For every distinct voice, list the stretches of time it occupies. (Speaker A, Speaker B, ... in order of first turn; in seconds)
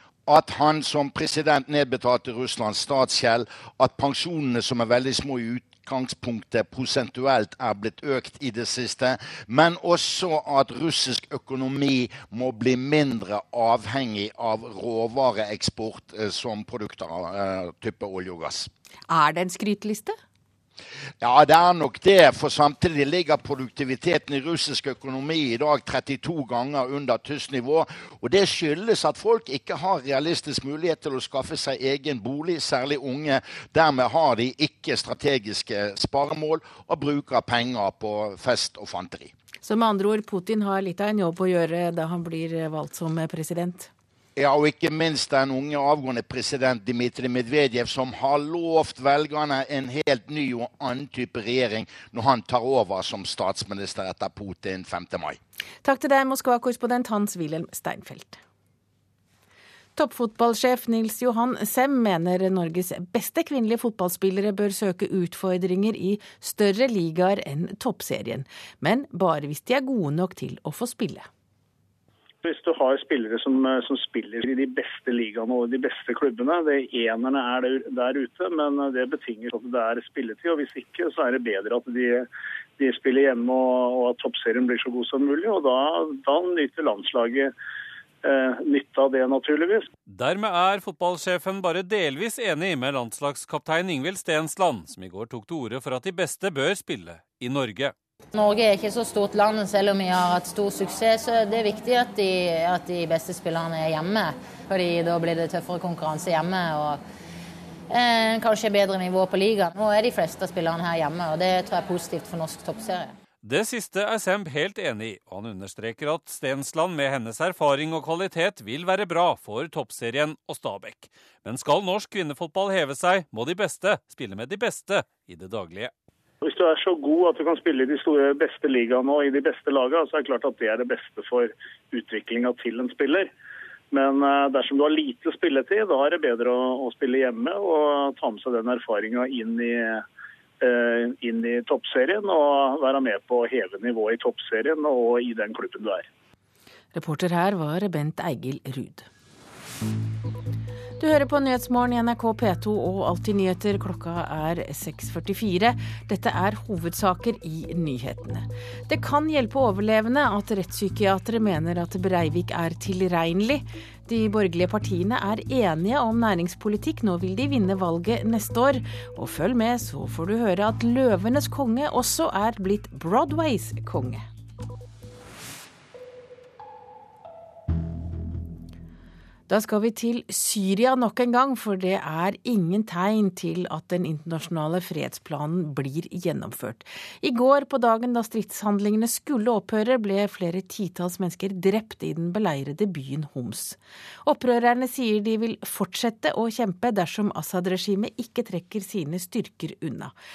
Speaker A: 0.2-18.7, 21.2-39.3, 44.4-55.4
Speaker B: 19.1-20.2, 39.6-43.9, 55.8-58.4, 60.0-71.3, 146.9-149.1, 151.0-174.2, 179.5-200.1
Speaker C: 72.4-82.3, 82.8-87.5, 88.2-89.8, 126.4-133.3, 133.9-140.0, 140.6-146.1
Speaker D: 90.1-97.9, 113.4-125.9
Speaker E: 98.3-107.0, 107.9-113.1